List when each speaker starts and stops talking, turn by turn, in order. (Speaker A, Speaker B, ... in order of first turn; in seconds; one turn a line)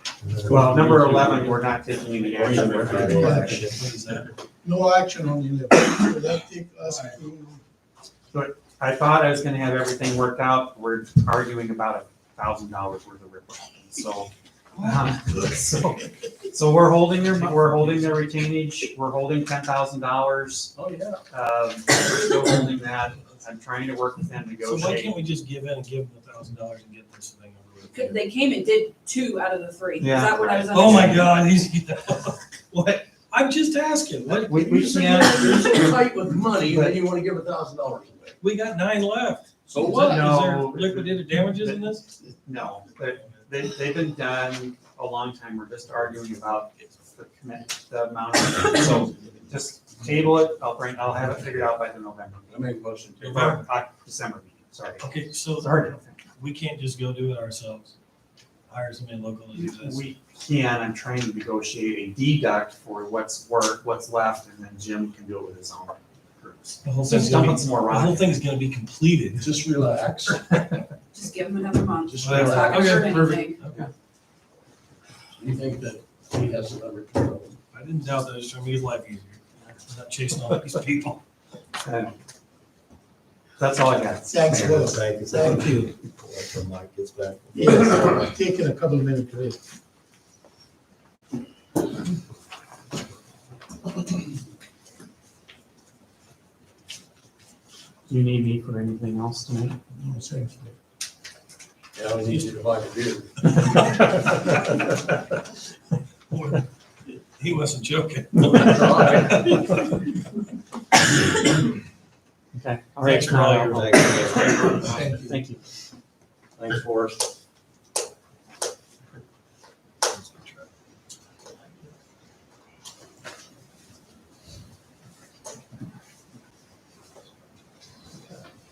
Speaker A: 0.2-0.9
Speaker B: 0.4-3.7
Speaker C: 0.5-1.7
Speaker C: 2.2-3.4
Speaker A: 2.5-3.7
Speaker D: 3.1-3.6
Speaker E: 3.2-4.3
Speaker D: 4.6-7.6
Speaker B: 8.3-20.7
Speaker E: 17.3-17.9
Speaker C: 20.8-21.2
Speaker B: 21.3-25.2
Speaker E: 24.6-28.2
Speaker F: 27.9-31.4
Speaker B: 30.0-31.3
Speaker E: 30.7-34.6
Speaker B: 34.4-36.1
Speaker C: 34.5-38.4
Speaker B: 36.6-37.0
Speaker E: 38.4-42.1
Speaker C: 39.7-40.4
Speaker B: 39.9-41.9
Speaker B: 42.5-52.5
Speaker C: 52.5-53.6
Speaker B: 53.2-56.2
Speaker E: 53.3-53.6
Speaker E: 55.0-58.0
Speaker E: 58.7-60.0
Speaker B: 59.5-68.3
Speaker E: 66.8-69.5
Speaker C: 69.4-70.7
Speaker F: 71.1-73.6
Speaker C: 72.0-73.5
Speaker E: 72.2-73.9
Speaker C: 75.3-77.6
Speaker E: 77.7-81.2
Speaker B: 81.8-82.2
Speaker B: 83.6-84.9
Speaker D: 84.3-85.9
Speaker A: 84.7-87.9
Speaker D: 87.5-89.6
Speaker B: 98.1-99.8
Speaker D: 100.0-100.7
Speaker C: 102.0-103.3
Speaker B: 103.4-104.8
Speaker E: 106.3-106.7
Speaker E: 107.4-109.5
Speaker C: 108.5-109.7
Speaker B: 112.5-115.6
Speaker E: 113.0-113.9
Speaker A: 113.7-114.8
Speaker C: 114.7-115.0
Speaker D: 114.9-115.4
Speaker C: 116.6-117.3
Speaker E: 120.1-120.7